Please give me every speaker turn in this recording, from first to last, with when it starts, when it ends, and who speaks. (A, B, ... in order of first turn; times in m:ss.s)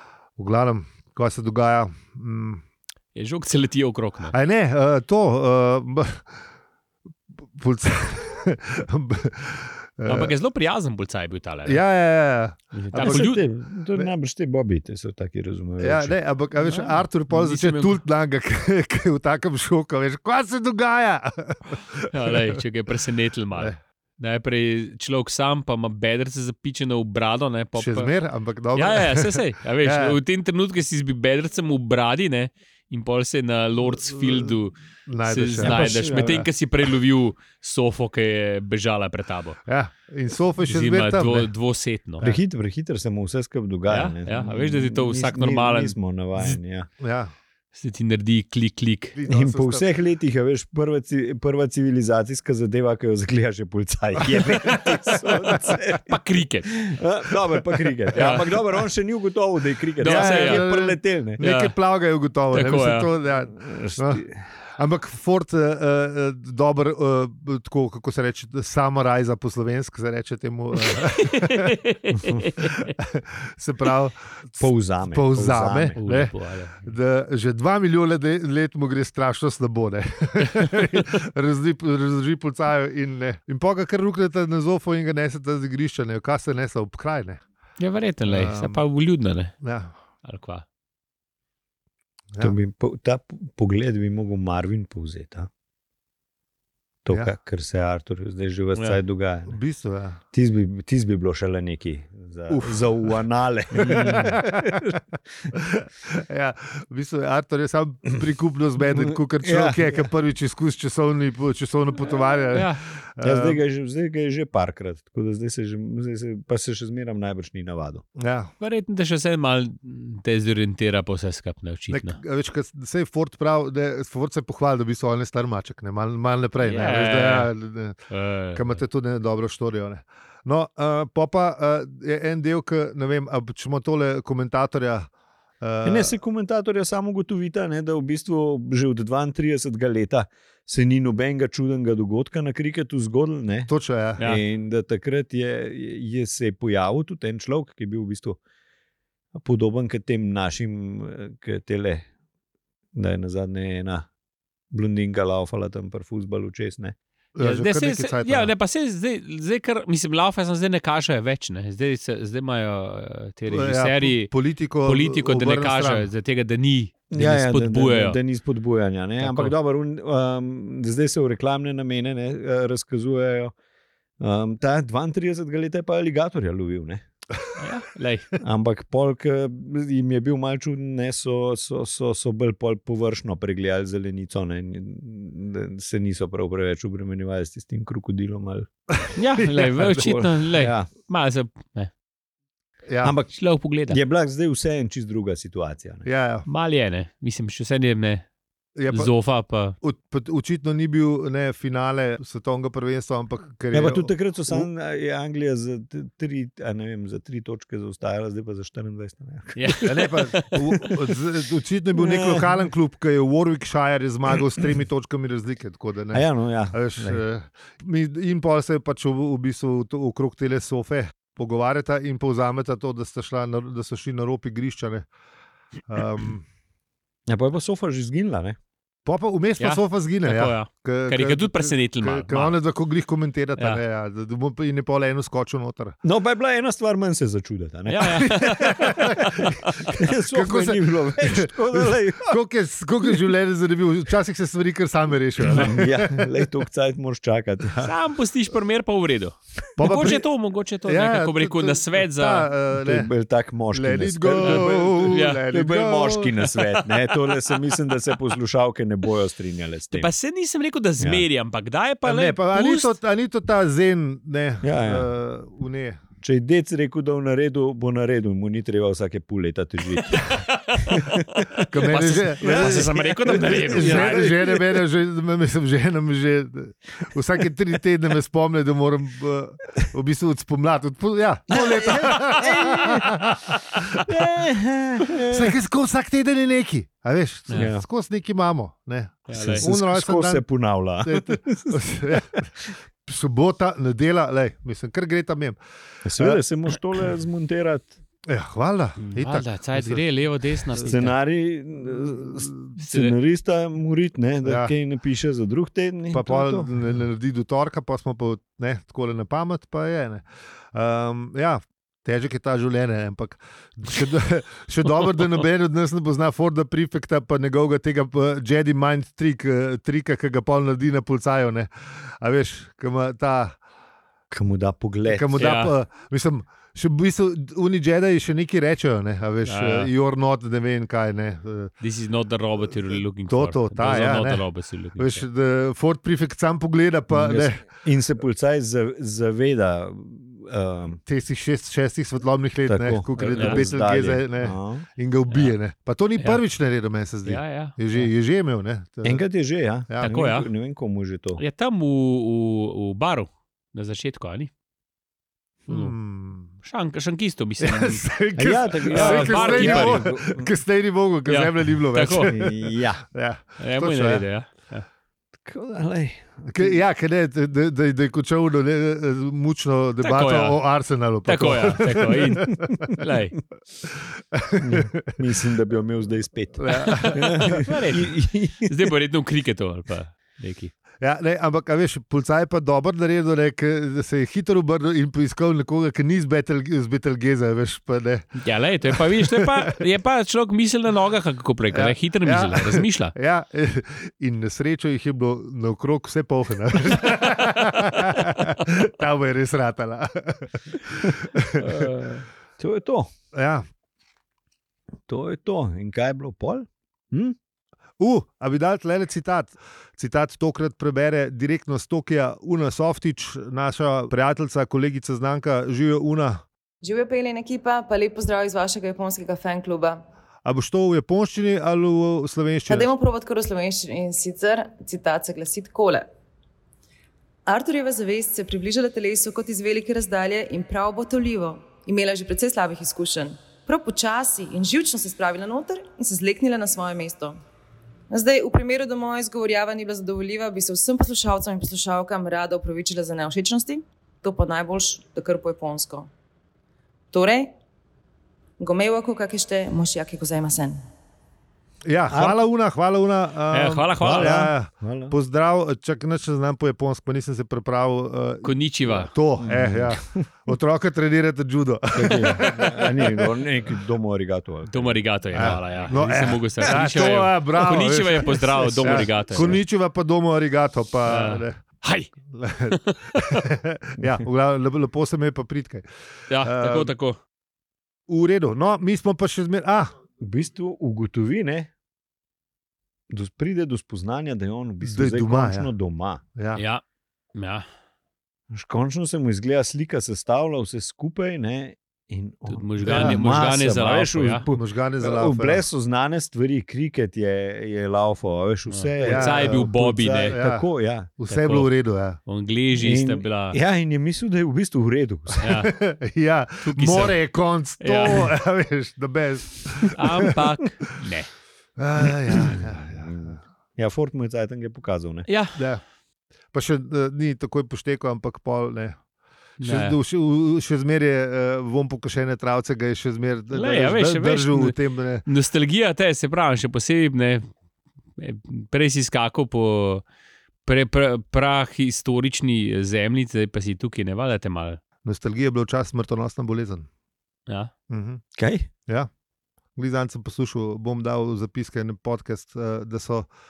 0:00.4-0:02.6 A
0:03.2-0:04.4 B
0:04.3-0:06.3 A
0:07.6-0:10.3 A
0:10.1-0:11.8 B
0:11.6-0:14.1 A
0:12.7-0:13.4 B
0:13.0-0:16.2 C
0:15.8-0:22.6 A
0:16.6-0:18.0 B
0:22.1-0:28.1 B
0:27.8-0:30.2 A
0:28.8-0:39.6 B
0:33.9-0:34.6 A
0:35.1-0:36.5 A
0:35.6-0:36.5 C
0:39.7-0:41.5 A
0:40.7-0:42.2 B
0:42.2-0:46.9 C
0:43.9-0:46.6 B
0:47.0-0:47.3 A
0:47.8-0:49.1 B
0:49.1-0:49.9 A
0:49.3-1:01.4 C
0:54.3-0:55.8 A
0:56.1-0:56.7 B
0:58.1-0:58.6 B
1:00.0-1:00.7 B
1:00.0-1:11.8 A
1:01.4-1:01.8 B
1:02.5-1:03.1 B
1:03.5-1:04.4 C
1:10.8-1:12.9 B
1:12.6-1:27.4 A
1:14.6-1:16.0 C
1:16.0-1:16.9 B
1:27.8-1:29.5 B
1:28.3-1:28.8 A
1:29.6-1:29.9 A
1:30.2-1:30.6 B
1:32.4-1:35.5 C
1:37.0-1:39.6 C
1:39.5-1:40.2 A
1:40.3-1:45.0 C
1:42.5-1:43.2 A
1:43.7-1:44.4 B
1:43.8-1:45.0 A
1:45.5-1:53.6 A
1:48.9-1:50.1 C
1:52.5-1:52.8 B
1:53.2-1:58.0 C
1:58.2-1:58.5 A
1:58.6-2:02.2 B
2:01.9-2:08.0 A
2:06.6-2:07.5 B
2:08.1-2:08.8 B
2:08.6-2:15.1 A
2:15.6-2:16.1 A
2:15.8-2:28.4 C
2:23.7-2:24.2 A
2:29.4-2:32.1 C
2:32.9-2:34.1 C
2:34.7-2:37.0 C
2:37.4-2:38.5 A
2:37.4-2:44.3 B
2:43.5-2:46.1 A
2:44.8-2:48.2 B
2:47.1-2:53.5 C
2:49.2-2:49.6 B
2:54.2-2:57.0 C
2:57.6-2:58.3 B
2:58.4-3:08.7 C
3:08.9-3:10.0 A
3:09.1-3:11.9 B
3:09.8-3:10.9 C
3:12.9-3:13.1 A
3:13.0-3:16.1 C
3:13.3-3:14.0 B
3:16.0-3:16.5 A
3:16.5-3:18.2 B
3:18.8-3:19.1 A
3:18.9-3:19.8 B
3:19.8-3:24.7 A
3:23.7-3:31.2 C
3:29.6-3:30.1 B
3:29.8-3:45.1 A
3:32.0-3:32.5 C
3:36.1-3:37.2 C
3:45.9-3:46.4 A
3:47.3-3:48.6 C
3:49.1-3:56.0 A
3:49.6-3:52.5 B
3:56.0-4:02.4 C
3:57.9-3:58.8 B
3:58.0-4:06.5 A
4:05.4-4:07.9 C
4:07.8-4:12.5 B
4:09.8-4:10.3 A
4:10.8-4:13.1 A
4:12.7-4:20.1 C
4:13.7-4:16.5 A
4:14.4-4:15.4 B
4:16.8-4:17.1 B
4:19.9-4:23.0 B
4:22.0-4:26.0 A
4:24.6-4:25.1 C
4:26.2-4:34.8 C
4:30.0-4:34.3 B
4:31.7-4:44.1 A
4:41.5-4:43.4 C
4:44.0-4:45.6 C
4:45.2-4:50.4 A
4:47.6-4:47.8 C
4:49.3-4:49.7 B
4:49.4-4:52.3 C
4:51.0-4:55.6 A
4:56.0-4:58.0 C
4:56.1-4:56.4 A
4:58.3-5:00.0 A
4:59.0-5:01.2 B
5:00.8-5:06.7 C
5:02.1-5:02.8 A
5:02.8-5:03.1 B
5:04.4-5:04.7 A
5:06.1-5:23.6 A
5:24.3-5:25.5 C
5:25.1-5:31.7 A
5:25.4-5:25.7 B
5:29.5-5:29.9 B
5:31.8-5:35.2 B
5:33.3-5:37.7 A
5:37.1-5:41.0 C
5:41.1-5:49.2 A
5:42.7-5:44.9 C
5:43.2-5:43.7 B
5:47.2-5:48.1 B
5:49.0-5:51.4 C
5:50.0-5:50.5 B
5:51.4-5:54.5 B
5:55.7-5:56.5 A
5:55.7-5:56.0 B
5:56.6-5:58.0 B
5:57.6-6:04.2 A
5:58.4-6:00.5 C
5:58.8-6:00.0 B
6:01.3-6:02.3 B
6:02.3-6:03.0 C
6:03.6-6:04.9 B
6:05.4-6:06.8 C
6:06.5-6:12.9 A
6:10.0-6:10.6 B
6:11.2-6:13.4 B
6:13.8-6:15.1 A
6:14.6-6:18.9 C
6:16.6-6:17.6 A
6:16.7-6:20.7 B
6:21.0-6:29.8 A
6:28.4-6:33.1 B
6:31.7-6:41.9 A
6:41.6-6:42.2 B
6:42.6-6:43.1 C
6:43.3-6:43.6 A
6:45.1-6:47.4 C
6:48.0-6:56.4 A
6:56.8-7:00.0 D
7:00.4-7:02.9 A
7:02.7-7:06.1 D
7:07.5-7:17.4 D
7:18.1-7:26.1 D
7:27.1-7:27.5 D
7:28.6-7:30.8 D
7:31.8-7:43.3 A
7:32.1-7:32.4 C
7:33.5-7:34.5 B
7:34.0-7:35.2 C
7:38.4-7:39.1 B
7:39.4-7:40.5 C
7:41.9-7:46.8 C
7:44.7-7:49.6 B
7:45.3-7:51.6 A
7:48.8-7:49.6 C
7:51.1-7:52.1 B
7:52.3-7:55.8 A
7:52.7-7:53.0 B
7:56.3-7:57.2 B
7:56.4-7:56.9 A
7:58.1-7:59.9 A
8:00.2-8:01.7 C
8:03.1-8:06.2 C
8:04.8-8:05.7 A
8:06.4-8:06.6 A
8:06.6-8:06.8 B
8:07.4-8:07.6 B
8:08.5-8:21.1 C
8:12.5-8:14.5 B
8:12.8-8:13.2 A
8:14.5-8:15.6 A
8:18.7-8:20.4 B
8:19.0-8:22.2 A
8:21.3-8:21.7 B
8:22.2-8:23.6 B
8:22.8-8:25.5 C
8:25.4-8:25.7 B
8:25.4-8:30.3 A
8:26.6-8:27.2 B
8:27.8-8:28.3 B
8:29.9-8:31.3 B
8:31.8-8:33.4 A
8:32.0-8:35.3 C
8:35.2-8:35.6 B
8:35.6-8:35.8 A
8:36.5-8:39.0 A
8:39.6-8:40.0 B
8:39.6-8:45.3 A
8:43.5-8:47.5 B
8:48.2-8:50.0 B
8:50.6-8:54.8 B
8:55.0-8:56.9 A
8:57.9-8:58.2 A
8:58.4-8:58.7 C
8:59.8-9:03.3 A